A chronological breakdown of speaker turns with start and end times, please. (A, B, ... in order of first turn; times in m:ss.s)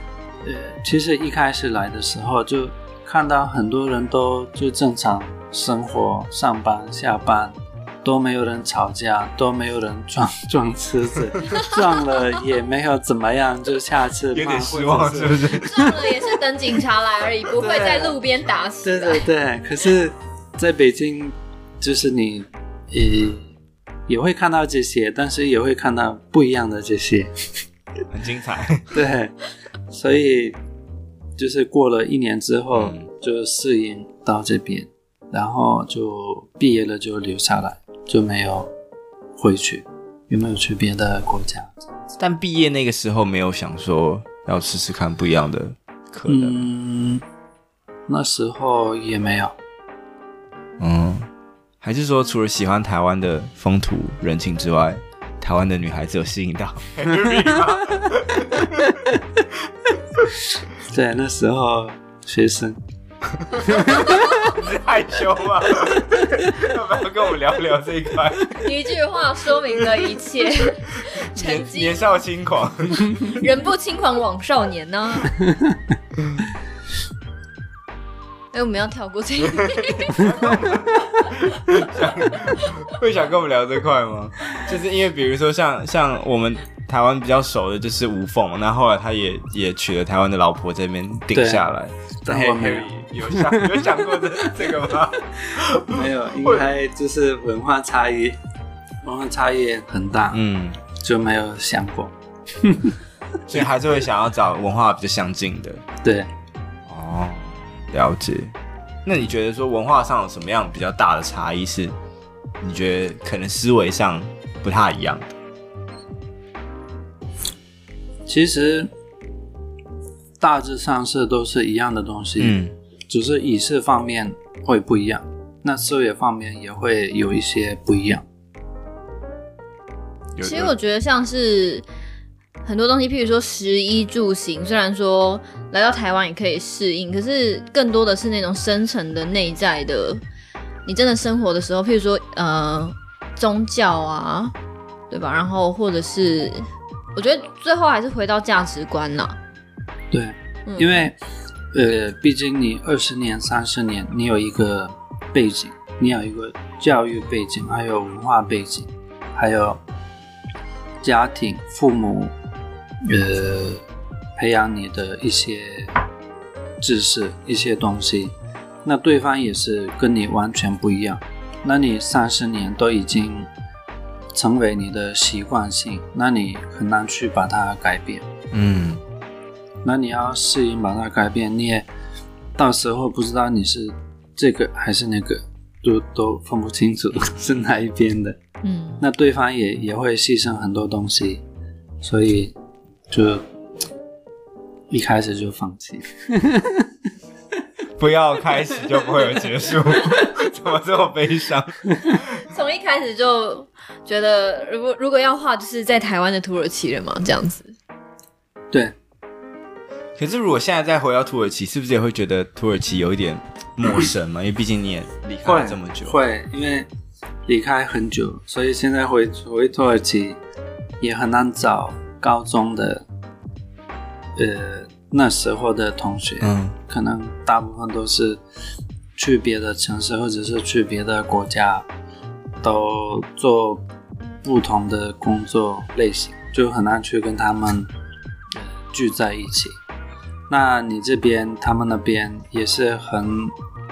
0:00.4-0:15.9 A
0:14.3-0:16.0 B
0:15.6-0:19.3 C
0:17.6-0:18.2 A
0:18.8-0:23.5 A
0:24.1-0:27.6 A
0:28.1-0:28.9 B
0:28.9-0:29.4 A
0:29.9-0:30.6 A
0:31.4-0:38.7 A
0:32.7-0:33.1 B
0:39.4-0:41.7 A
0:42.2-0:46.6 B
0:46.3-0:47.2 A
0:48.1-0:49.6 A
0:50.8-0:51.3 B
0:51.8-1:00.3 B
1:00.8-1:02.8 A
1:03.2-1:08.7 B
1:04.1-1:04.4 C
1:08.6-1:12.2 C
1:11.3-1:13.4 B
1:13.2-1:15.4 C
1:18.5-1:20.7 C
1:19.5-1:36.6 B
1:31.3-1:31.7 A
1:32.2-1:33.7 A
1:35.6-1:38.4 A
1:39.0-1:40.4 A
1:40.3-1:40.8 B
1:41.0-1:43.0 A
1:43.5-1:45.8 B
1:46.0-1:46.3 A
1:46.9-1:51.9 B
1:52.6-1:55.3 B
1:58.3-1:58.9 A
2:00.4-2:08.2 A
2:02.4-2:02.8 B
2:10.4-2:10.7 B
2:10.4-2:11.8 C
2:12.6-2:20.2 C
2:20.9-2:24.5 C
2:25.1-2:29.4 C
2:30.1-2:31.2 A
2:30.7-2:31.1 C
2:31.7-2:39.8 A
2:41.0-2:42.3 A
2:43.0-2:43.8 A
2:44.4-2:45.9 A
2:46.8-2:53.5 A
2:54.3-2:58.3 A
2:58.5-2:59.0 B
2:59.8-3:01.9 A
3:02.6-3:08.4 A
3:08.6-3:09.0 C
3:09.0-3:11.4 A
3:12.0-3:12.6 A
3:13.1-3:13.4 A
3:14.9-3:16.8 A
3:18.0-3:22.4 B
3:22.4-3:27.7 C
3:30.2-3:36.2 B
3:35.4-3:36.9 A
3:37.5-3:40.4 A
3:41.0-3:43.0 A
3:44.4-3:48.4 A
3:46.4-3:46.8 B
3:49.2-3:51.9 A
3:52.6-3:53.8 A
3:54.4-3:57.9 A
3:58.5-3:59.8 A
4:00.5-4:03.5 A